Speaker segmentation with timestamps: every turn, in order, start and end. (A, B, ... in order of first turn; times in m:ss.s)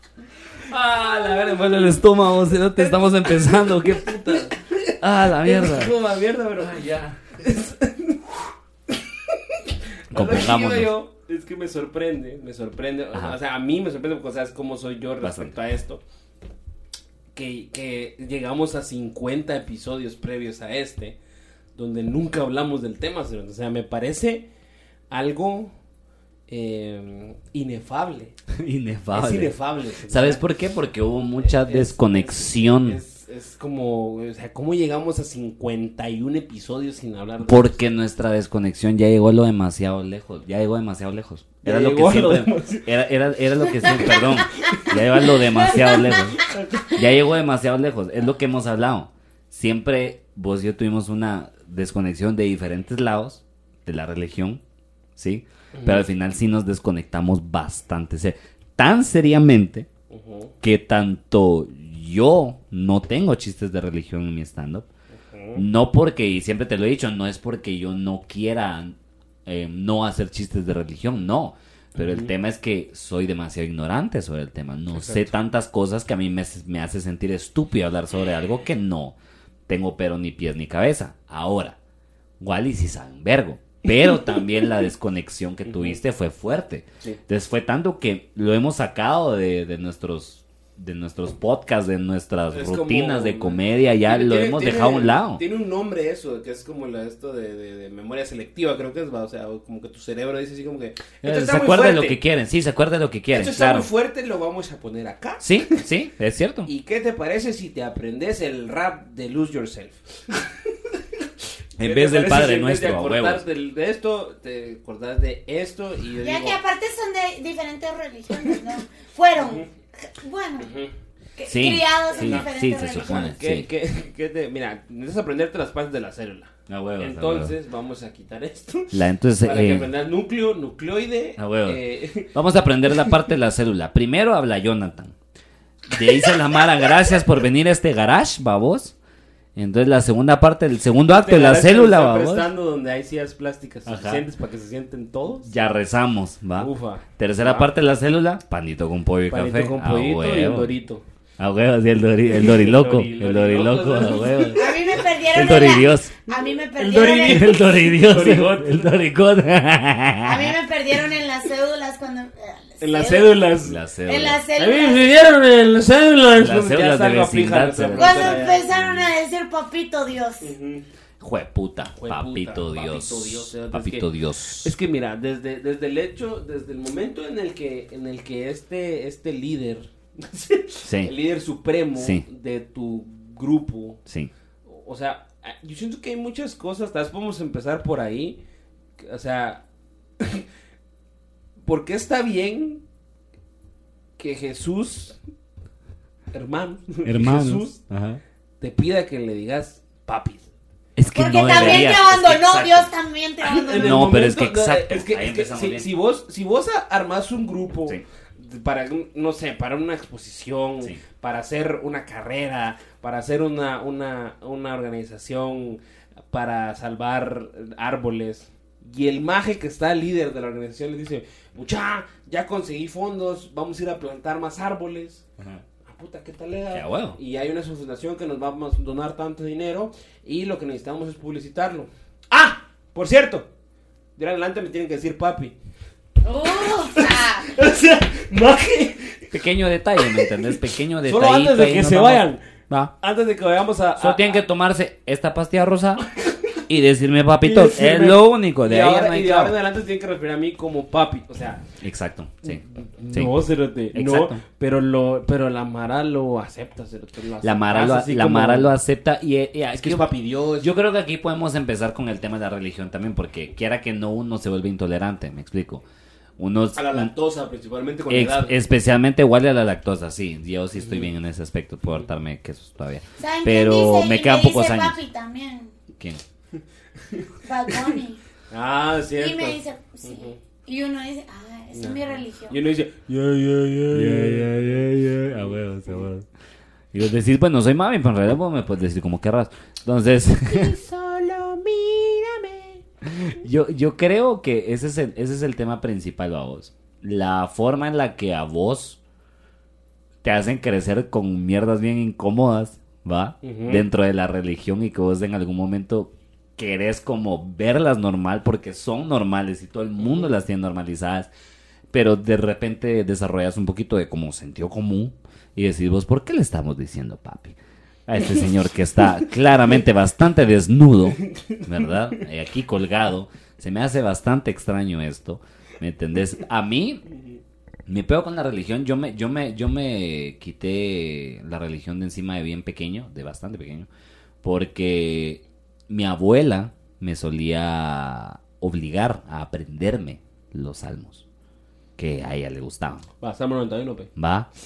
0:00.7-0:05.9 A
0:01.0-0:06.8 B
0:06.6-0:07.2 A
0:07.3-0:16.0 B
0:10.1-0:10.9 A
0:15.2-0:15.6 A
0:17.3-0:21.2 B
0:21.8-0:24.5 B
0:25.1-0:25.7 B
0:26.5-0:28.3 B
0:28.5-0:29.5 A
0:29.1-0:30.4 B
0:30.1-0:33.0 A
0:31.4-0:37.8 B
0:37.4-0:54.6 A
0:41.6-0:43.0 B
0:43.6-0:47.1 B
0:55.2-0:59.9 A
0:55.7-0:56.0 B
1:00.1-1:00.5 B
1:00.6-1:04.9 A
1:05.1-1:05.6 B
1:05.6-1:19.1 A
1:12.0-1:12.3 B
1:14.9-1:15.3 B
1:19.7-1:21.8 A
1:22.4-1:35.4 A
1:25.7-1:26.0 B
1:32.5-1:42.2 B
1:41.2-1:43.9 A
1:43.3-1:45.7 B
1:45.4-1:46.7 A
1:46.6-1:51.2 B
1:51.8-1:56.6 B
1:51.8-1:53.4 A
1:56.2-2:00.7 C
1:59.4-1:59.7 B
2:00.6-2:00.9 B
2:01.4-2:03.3 C
2:01.5-2:03.7 A
2:02.1-2:12.3 B
2:06.7-2:07.5 A
2:08.9-2:09.9 A
2:11.4-2:11.8 A
2:12.3-2:15.1 A
2:15.9-2:18.9 A
2:19.6-2:22.5 A
2:21.1-2:25.5 B
2:23.8-2:24.2 A
2:25.5-2:30.7 A
2:26.6-2:27.7 B
2:29.3-2:31.0 B
2:31.4-2:34.6 A
2:32.2-2:35.0 B
2:34.5-2:37.5 C
2:35.3-2:36.1 A
2:36.7-2:38.9 B
2:37.2-2:40.5 A
2:40.2-2:43.4 C
2:42.8-2:43.8 B
2:43.6-2:44.4 A
2:44.0-2:45.0 C
2:44.5-2:48.7 B
2:46.3-2:49.1 A
2:48.0-2:50.5 C
2:50.4-2:50.8 B
2:51.2-2:54.7 A
2:52.0-2:54.0 B
2:54.6-3:04.0 B
3:00.8-3:01.1 A
3:02.0-3:02.2 A
3:04.6-3:08.4 B
3:09.0-3:09.6 B
3:10.2-3:10.4 B
3:11.6-3:12.8 B
3:14.2-3:15.2 B
3:16.3-3:17.8 B
3:17.0-3:18.2 A
3:18.6-3:20.4 B
3:21.0-3:22.9 A
3:21.1-3:24.1 C
3:21.5-3:21.9 B
3:23.4-3:35.8 B
3:23.8-3:25.9 A
3:36.3-3:45.2 B
3:45.4-3:45.6 A
3:45.8-3:53.5 B
3:46.7-3:47.2 A
3:54.2-3:55.5 B
3:56.2-3:57.5 C
3:56.7-3:59.3 B
3:59.3-4:02.8 A
4:00.0-4:04.4 B
4:04.0-4:06.0 A
4:06.6-4:09.6 A
4:07.4-4:11.6 B
4:11.8-4:13.3 A
4:12.4-4:18.7 B
4:13.9-4:14.4 A
4:17.4-4:20.0 A
4:19.7-4:20.7 B
4:20.6-4:25.8 A
4:26.4-4:27.1 A
4:26.7-4:28.6 B
4:28.1-4:35.0 A
4:30.8-4:31.1 B
4:33.2-4:35.7 C
4:37.1-4:38.0 B
4:37.4-4:38.2 C
4:38.5-4:40.4 B
4:39.2-4:42.6 C
4:41.7-4:45.6 B
4:43.9-4:46.2 A
4:46.9-4:50.8 A
4:50.5-4:52.8 B
4:53.0-4:59.0 A
5:00.2-5:11.3 A
5:03.4-5:03.8 B
5:10.0-5:10.3 B
5:11.9-5:27.0 A
5:21.2-5:21.8 B
5:27.8-5:33.9 A
5:34.4-5:41.2 A
5:42.0-5:43.1 A
5:43.2-5:44.1 B
5:44.2-5:44.5 A